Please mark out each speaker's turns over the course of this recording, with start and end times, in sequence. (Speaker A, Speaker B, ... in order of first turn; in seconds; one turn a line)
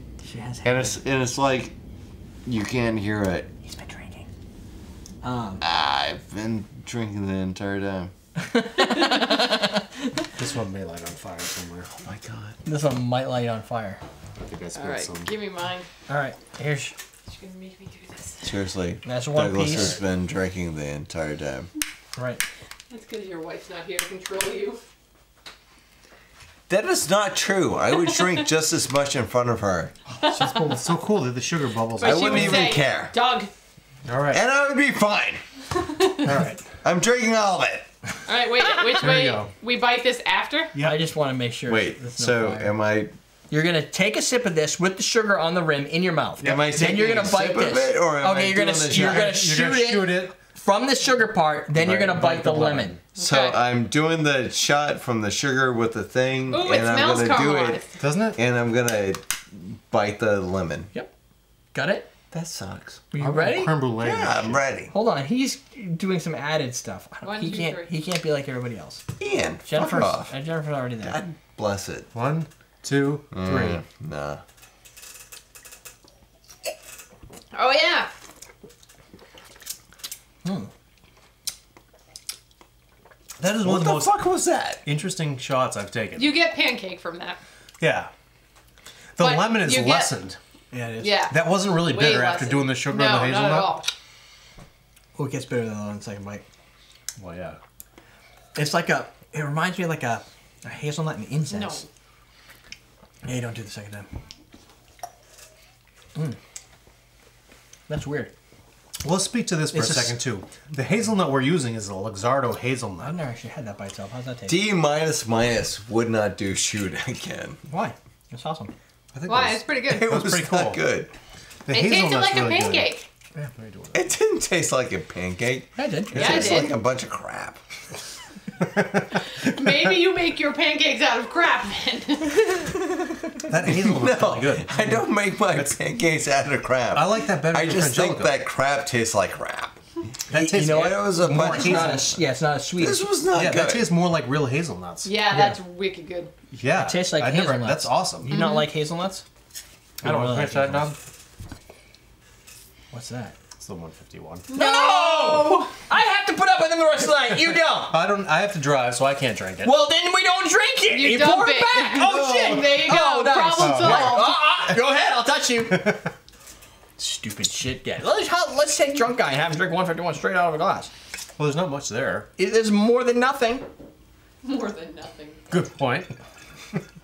Speaker A: 0.2-1.0
Speaker B: 0.6-1.7
Speaker B: 2.4-3.5
Speaker A: 3.6-4.3
Speaker A: 5.2-5.6
Speaker B: 5.6-8.1
Speaker A: 8.4-10.2
Speaker C: 8.8-9.5
Speaker D: 10.4-12.0
Speaker B: 12.0-12.6
Speaker A: 12.6-14.0
Speaker D: 14.4-15.3
Speaker C: 14.7-15.9
Speaker A: 16.1-16.9
Speaker C: 17.3-18.6
Speaker B: 18.4-21.7
Speaker A: 19.0-20.0
Speaker D: 19.6-20.0
Speaker A: 22.1-22.4
Speaker C: 22.9-24.8
Speaker B: 26.7-29.9
Speaker C: 28.0-28.4
Speaker C: 30.2-30.6
Speaker D: 30.3-32.7
Speaker C: 31.9-33.5
Speaker B: 32.0-33.1
Speaker D: 34.0-34.4
Speaker B: 34.3-35.4
Speaker C: 35.8-36.2
Speaker D: 36.2-36.6
Speaker B: 36.8-37.8
Speaker C: 38.2-40.7
Speaker D: 39.0-39.5
Speaker A: 40.8-42.7
Speaker B: 41.7-43.1
Speaker A: 43.5-53.0
Speaker D: 46.4-46.7
Speaker B: 46.4-49.4
Speaker D: 48.9-50.3
Speaker B: 51.8-52.2
Speaker D: 51.9-53.0
Speaker C: 53.1-53.6
Speaker B: 53.1-57.8
Speaker C: 56.5-58.0
Speaker D: 58.0-58.4
Speaker B: 58.3-60.9
Speaker A: 61.7-62.1
Speaker B: 62.3-63.0
Speaker A: 63.1-69.0
Speaker D: 63.2-64.6
Speaker B: 64.2-64.9
Speaker C: 67.2-67.9
Speaker B: 69.2-70.3
Speaker A: 69.7-71.2
Speaker B: 71.0-72.1
Speaker D: 72.1-73.8
Speaker B: 73.3-74.4
Speaker C: 77.5-78.1
Speaker A: 80.4-80.7
Speaker D: 83.4-84.1
Speaker B: 83.6-84.8
Speaker D: 84.8-86.4
Speaker C: 86.2-87.4
Speaker D: 87.8-88.1
Speaker D: 89.2-90.4
Speaker C: 89.2-90.1
Speaker A: 90.7-91.2
Speaker C: 91.0-93.9
Speaker D: 91.3-93.8
Speaker A: 95.1-96.4
Speaker D: 97.2-97.6
Speaker A: 98.5-101.8
Speaker C: 101.5-101.8
Speaker A: 103.2-104.1
Speaker A: 107.9-108.3
Speaker D: 109.0-113.2
Speaker A: 109.7-110.2
Speaker A: 113.0-114.6
Speaker B: 114.5-117.6
Speaker A: 117.7-118.7
Speaker D: 119.1-120.8
Speaker C: 119.3-120.1
Speaker B: 119.9-121.1
Speaker D: 121.7-124.1
Speaker C: 121.7-123.1
Speaker B: 123.9-127.6
Speaker A: 125.8-126.7
Speaker C: 126.1-126.7
Speaker D: 128.6-129.1
Speaker C: 129.2-132.5
Speaker A: 132.6-133.2
Speaker D: 133.5-135.8
Speaker B: 133.6-139.8
Speaker D: 136.9-138.3
Speaker D: 140.3-142.1
Speaker A: 140.3-143.1
Speaker B: 140.4-142.2
Speaker B: 142.8-143.9
Speaker D: 143.3-145.1
Speaker C: 145.0-146.3
Speaker A: 145.3-145.6
Speaker D: 146.5-148.3
Speaker A: 146.8-149.2
Speaker C: 148.3-148.7
Speaker D: 150.0-151.0
Speaker A: 150.0-150.9
Speaker A: 152.9-153.3
Speaker D: 153.6-154.5
Speaker C: 154.5-155.7
Speaker A: 154.5-157.9
Speaker D: 157.9-159.7
Speaker A: 159.6-165.9
Speaker C: 160.9-164.2
Speaker D: 162.5-162.8
Speaker D: 163.5-164.7
Speaker A: 167.0-170.9
Speaker D: 171.4-172.3
Speaker A: 172.4-173.7
Speaker C: 174.4-175.4
Speaker D: 175.5-176.1